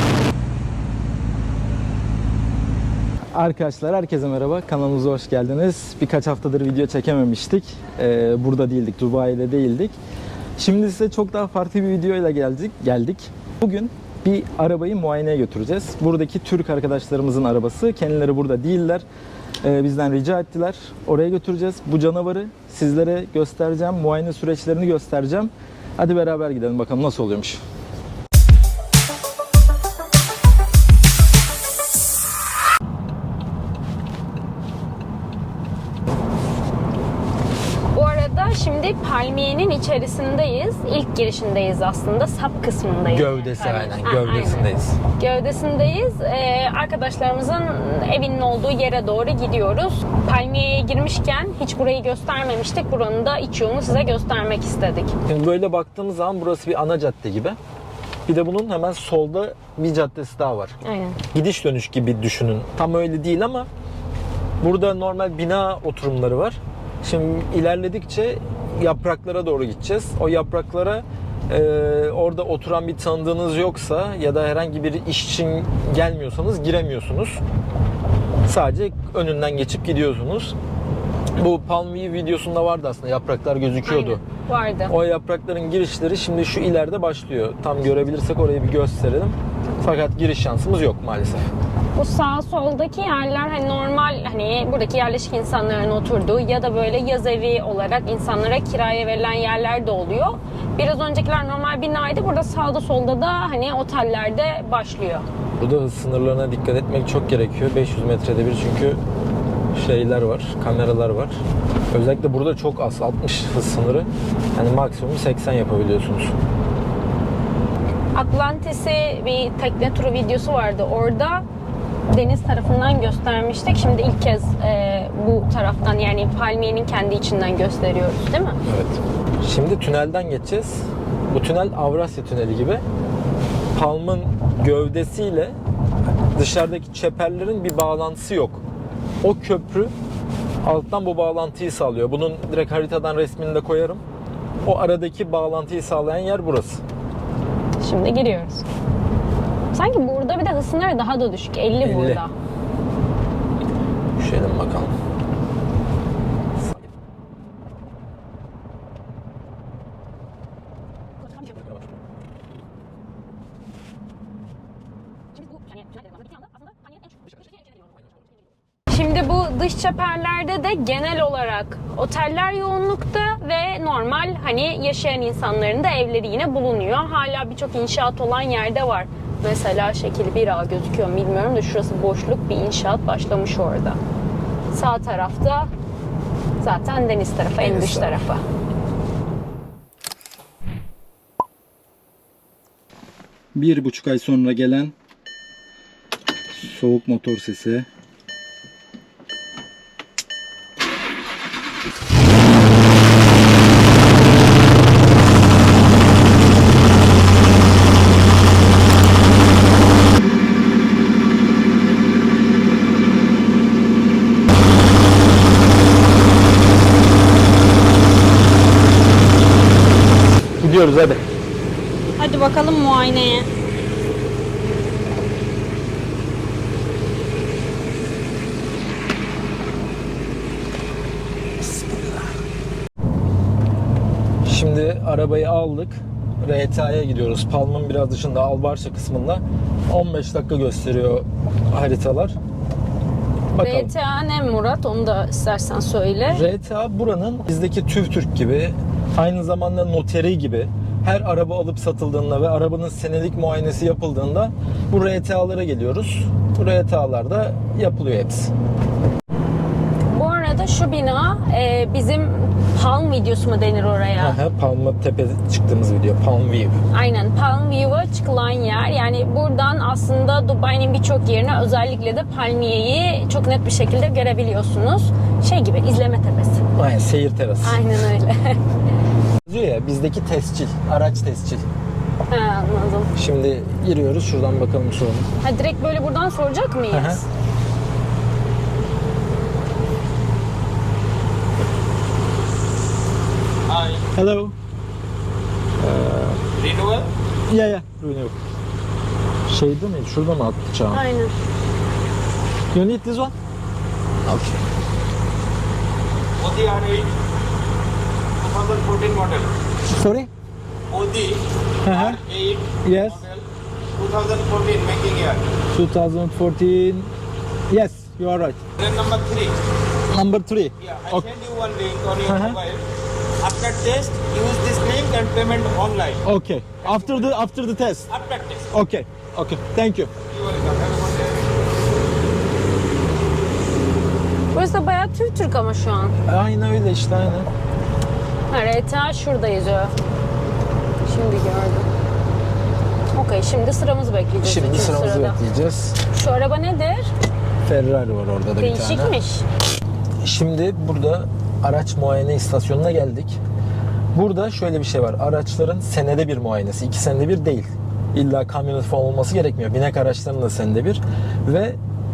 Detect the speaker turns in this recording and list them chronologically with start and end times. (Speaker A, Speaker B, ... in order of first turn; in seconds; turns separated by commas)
Speaker A: 3.3-9.9, Speaker A: 10.6-19.0, Speaker A: 19.6-27.6, Speaker B: 37.9-55.1, Speaker A: 43.1-45.0, Speaker A: 55.2-57.6, Speaker A: 58.3-60.8, Speaker B: 60.8-61.2, Speaker A: 61.3-63.7, Speaker A: 64.6-77.4, Speaker A: 78.5-80.5, Speaker A: 81.3-84.2, Speaker B: 83.8-84.9, Speaker A: 84.9-91.5, Speaker B: 91.9-105.2, Speaker A: 105.5-109.0, Speaker A: 109.7-111.3, Speaker A: 111.9-116.3, Speaker B: 118.1-121.4, Speaker B: 122.1-128.6, Speaker A: 128.6-132.8, Speaker A: 133.7-135.6, Speaker A: 136.3-138.6, Speaker A: 139.2-139.9, Speaker A: 140.6-144.0, Speaker A: 144.6-146.8, Speaker B: 147.8-148.6, Speaker B: 149.7-152.3, Speaker A: 151.8-152.2, Speaker A: 154.2-154.9, Speaker B: 165.4-167.4, Speaker B: 168.9-184.0, Speaker B: 184.7-185.7, Speaker B: 186.6-188.4, Speaker A: 187.6-188.2, Speaker A: 193.5-194.9, Speaker A: 196.5-197.8, Speaker A: 220.6-221.2, Speaker B: 222.2-223.5, Speaker A: 234.4-242.4, Speaker A: 243.5-243.9, Speaker B: 243.6-246.4, Speaker A: 246.3-258.5, Speaker B: 260.1-264.4, Speaker A: 264.2-266.8, Speaker B: 266.9-276.6, Speaker A: 276.7-277.8, Speaker B: 277.6-278.6, Speaker A: 279.5-281.6, Speaker B: 282.3-283.1, Speaker A: 283.1-285.3, Speaker B: 285.4-287.2, Speaker A: 286.9-287.2, Speaker C: 293.7-294.0, Speaker A: 294.1-294.5, Speaker A: 295.8-296.4, Speaker C: 296.5-297.1, Speaker A: 297.5-298.4, Speaker A: 299.5-301.0, Speaker B: 300.9-301.3, Speaker A: 302.7-303.3, Speaker A: 304.2-304.6, Speaker C: 306.4-307.1, Speaker C: 308.4-309.5, Speaker A: 309.9-310.3, Speaker C: 310.9-313.4, Speaker A: 311.8-312.2, Speaker A: 312.8-313.2, Speaker C: 313.9-315.4, Speaker A: 315.7-317.1, Speaker A: 317.7-318.6, Speaker C: 318.8-319.6, Speaker A: 320.1-321.2, Speaker C: 320.8-322.8, Speaker A: 322.2-322.6, Speaker C: 323.4-326.2, Speaker A: 326.2-328.1, Speaker C: 328.1-328.7, Speaker A: 328.7-330.1, Speaker C: 330.3-331.5, Speaker B: 334.5-336.1, Speaker A: 336.2-337.5, Speaker B: 338.5-339.9, Speaker B: 341.1-341.9, Speaker B: 343.1-345.4, Speaker A: 344.4-346.0, Speaker B: 346.1-347.1, Speaker A: 347.6-349.1, Speaker B: 348.6-349.4, Speaker A: 350.2-353.4, Speaker A: 354.1-361.8